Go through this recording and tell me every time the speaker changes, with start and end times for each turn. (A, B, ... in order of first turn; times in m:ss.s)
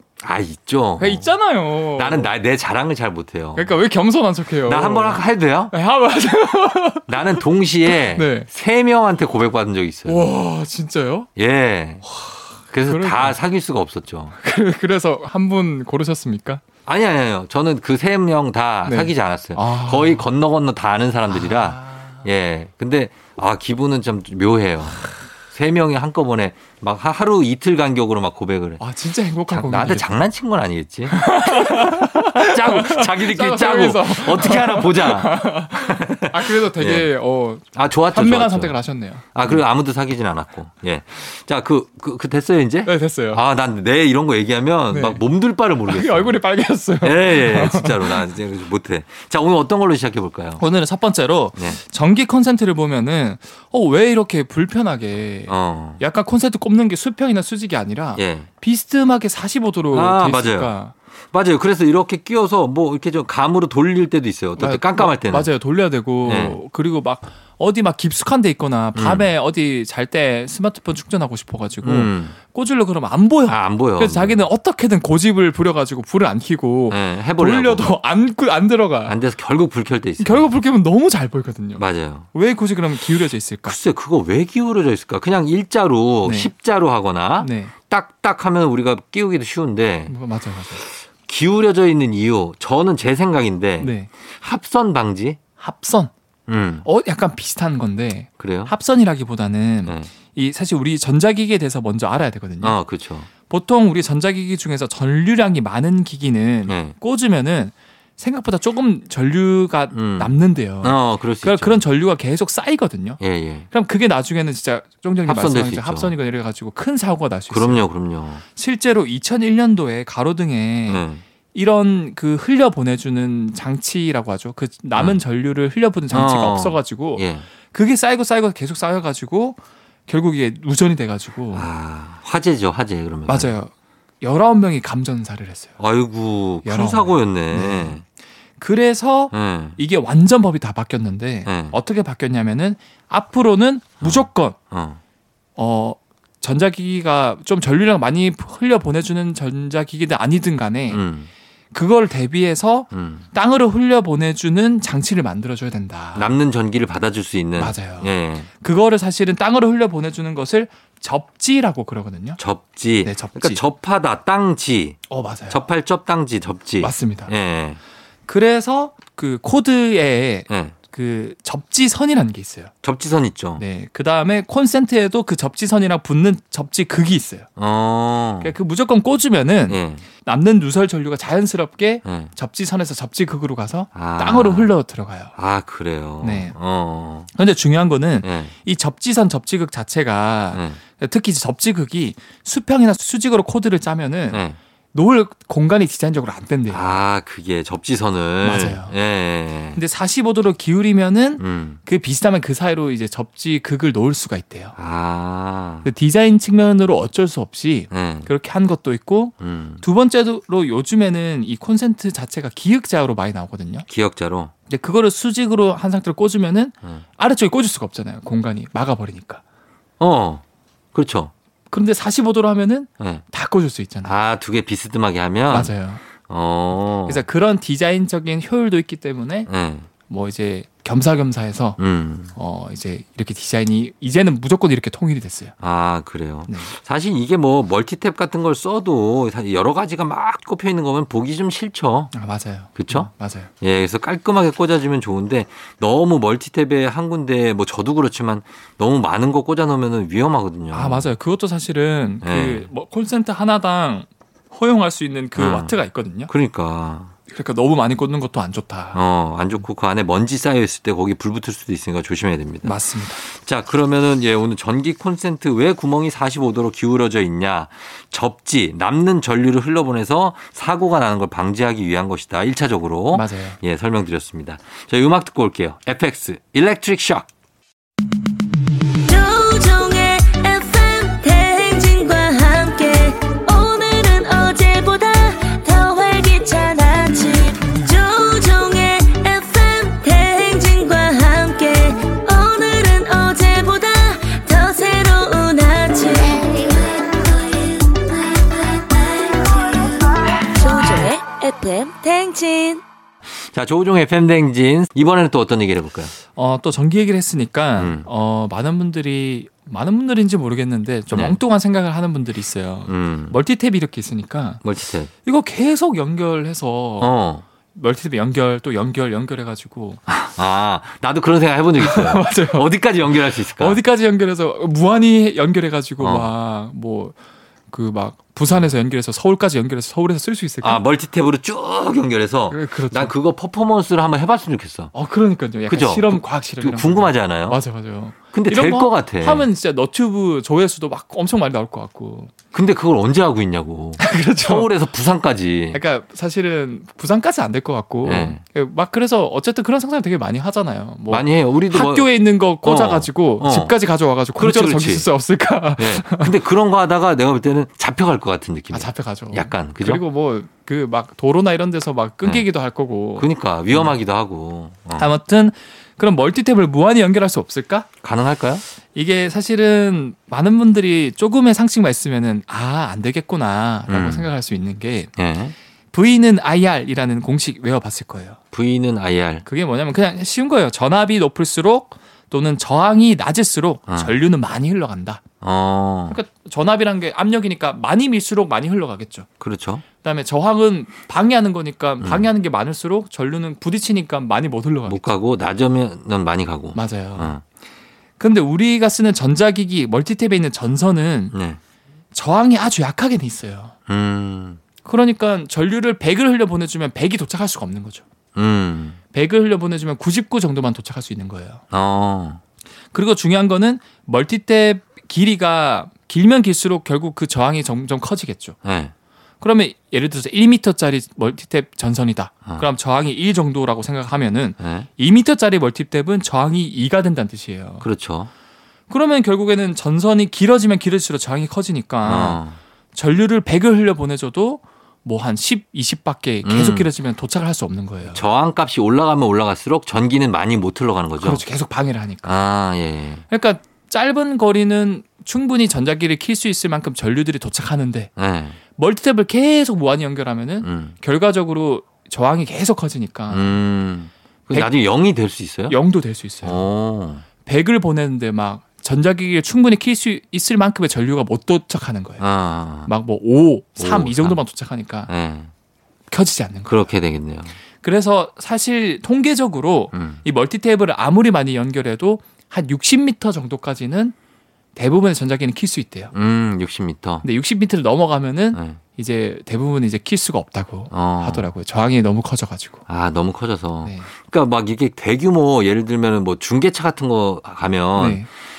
0:00.2-0:01.3 A
0:01.0-0:02.3 B
0:02.0-0:03.7 A
0:03.5-0:08.5 B
0:04.6-0:05.7 A
0:07.1-0:10.3 A
0:10.0-0:11.3 B
0:11.4-0:12.0 A
0:12.0-0:13.4 B
0:12.7-0:14.3 A
0:14.4-0:16.6 B
0:16.8-0:28.8 A
0:18.8-0:20.2 B
0:21.3-0:22.2 B
0:28.8-0:30.2 B
0:29.5-0:37.1 A
0:31.1-0:39.6 B
0:37.7-0:38.8 A
0:39.3-0:46.3 A
0:42.8-0:43.4 B
0:44.9-0:45.2 B
0:45.9-0:48.2 B
0:47.0-0:50.6 A
0:50.6-1:00.9 B
0:55.5-0:56.0 A
0:58.2-0:58.5 A
0:59.9-1:00.7 A
1:01.3-1:05.5 A
1:04.6-1:19.2 B
1:06.2-1:06.6 A
1:08.9-1:09.3 A
1:11.8-1:12.3 A
1:13.5-1:14.4 A
1:16.9-1:17.8 A
1:19.0-1:20.5 A
1:20.2-1:23.8 B
1:21.8-1:22.3 A
1:23.6-1:30.1 A
1:26.2-1:26.5 B
1:27.4-1:27.7 B
1:30.1-1:30.8 B
1:30.9-1:35.4 A
1:33.8-1:34.1 B
1:35.6-1:36.1 B
1:36.5-1:36.8 A
1:36.8-1:42.8 B
1:38.4-1:38.7 A
1:42.6-1:43.3 A
1:43.5-1:57.9 B
1:46.7-1:47.0 A
1:49.9-1:51.8 A
1:53.2-1:53.7 A
1:55.2-1:56.1 A
1:57.5-1:58.4 A
1:58.5-2:11.7 B
2:00.9-2:01.2 A
2:06.1-2:07.4 A
2:11.5-2:13.5 A
2:13.3-2:15.8 B
2:15.8-2:18.0 A
2:16.6-2:18.0 B
2:18.6-2:24.6 B
2:19.3-2:19.8 A
2:21.4-2:21.8 A
2:24.0-2:25.0 A
2:25.6-2:31.0 B
2:30.9-2:31.3 A
2:31.7-2:36.3 B
2:32.9-2:33.2 A
2:36.1-2:38.5 A
2:37.6-2:42.4 B
2:42.4-2:47.8 A
2:43.0-2:43.6 B
2:45.1-2:45.6 B
2:46.8-2:47.3 B
2:48.3-2:52.7 B
2:50.5-2:50.7 A
2:52.8-2:53.6 A
2:53.6-2:57.5 B
2:57.6-2:58.5 A
2:58.4-3:05.3 B
2:59.7-3:00.0 A
3:02.0-3:02.3 A
3:03.9-3:04.7 A
3:05.4-3:07.3 A
3:06.2-3:06.5 B
3:07.3-3:16.9 B
3:08.2-3:08.5 A
3:10.5-3:10.8 A
3:14.3-3:14.6 A
3:16.7-3:19.8 A
3:18.4-3:18.9 B
3:19.7-3:24.7 B
3:21.4-3:21.8 A
3:24.8-3:25.9 A
3:25.8-3:33.8 B
3:27.9-3:28.3 A
3:29.4-3:29.8 A
3:33.9-3:34.5 A
3:34.7-3:39.4 B
3:40.0-3:40.4 A
3:40.9-3:41.3 A
3:41.7-3:44.1 B
3:44.0-3:47.2 A
3:45.5-3:46.0 B
3:47.0-3:49.5 B
3:49.5-3:49.9 A
3:50.1-3:51.8 B
3:51.8-3:52.3 A
3:52.3-3:55.5 B
3:55.6-4:02.1 A
3:56.5-3:56.7 B
4:02.1-4:03.5 B
4:02.7-4:03.1 A
4:03.6-4:11.1 A
4:10.7-4:16.3 B
4:12.2-4:12.7 A
4:15.4-4:15.8 A
4:16.3-4:17.1 A
4:17.3-4:19.0 B
4:18.9-4:37.3 A
4:22.6-4:23.2 B
4:33.1-4:33.6 B
4:39.0-5:02.8 C
5:03.5-5:06.1 A
5:06.3-5:14.6 B
5:07.8-5:08.0 A
5:11.1-5:11.4 A
5:12.9-5:13.4 A
5:14.6-5:15.1 A
5:15.2-5:17.1 B
5:17.0-5:17.4 A
5:17.7-5:20.0 B
5:20.1-5:23.8 A
5:21.8-5:22.7 B
5:23.5-5:27.2 B
5:26.0-5:26.3 A
5:27.7-5:30.8 B
5:30.6-5:34.9 A
5:32.5-5:33.1 B
5:34.9-5:42.3 B
5:35.7-5:37.6 A
5:38.3-5:39.5 A
5:42.5-5:45.8 A
5:44.0-5:44.7 B
5:45.7-5:56.3 B
5:48.0-5:48.4 A
5:51.1-5:52.1 A
5:52.6-5:53.7 A
5:54.4-5:55.1 A
5:55.8-6:00.0 A
5:58.7-6:03.9 B
6:03.2-6:05.1 A
6:05.0-6:07.9 B
6:08.0-6:08.6 A
6:08.9-6:15.1 B
6:13.9-6:14.3 A
6:15.2-6:15.5 A
6:15.9-6:18.4 B
6:18.5-6:19.4 A
6:19.4-6:25.2 B
6:23.9-6:24.1 A
6:25.4-6:26.2 A
6:26.1-6:29.3 B
6:29.4-6:29.8 A
6:30.0-6:35.0 B
6:32.0-6:32.3 A
6:34.9-6:37.4 A
6:36.7-6:37.4 B
6:38.2-6:41.3 B
6:41.3-6:41.6 A
6:42.1-6:43.7 B
6:43.9-6:44.6 A
6:44.8-6:48.0 B
6:48.3-6:49.0 A
6:49.1-6:51.6 B
6:51.7-6:52.4 A
6:52.9-6:58.6 B
6:58.6-6:58.9 A
6:59.4-7:07.8 B
7:04.6-7:04.9 A
7:07.8-7:08.3 A
7:08.9-7:12.4 B
7:12.0-7:12.6 A
7:12.9-7:18.2 B
7:16.4-7:16.9 A
7:18.1-7:21.4 A
7:21.2-7:22.3 B
7:22.2-7:23.2 A
7:23.3-7:28.1 B
7:28.2-7:28.6 A
7:28.7-7:33.6 B
7:30.6-7:30.9 A
7:33.3-7:35.8 A
7:35.7-7:36.6 B
7:36.4-7:37.2 A
7:37.4-7:42.2 B
7:42.2-7:42.9 A
7:42.8-7:45.1 B
7:43.8-7:44.4 A
7:45.1-7:45.5 A
7:46.1-7:46.9 B
7:46.6-7:47.5 A
7:47.8-7:54.1 B
7:49.9-7:50.2 A
7:54.7-7:56.1 B
7:56.1-7:57.2 A
7:57.2-8:02.8 B
7:58.5-7:58.8 A
8:00.9-8:01.5 A
8:02.9-8:08.3 A
8:03.8-8:04.1 B
8:08.0-8:08.3 B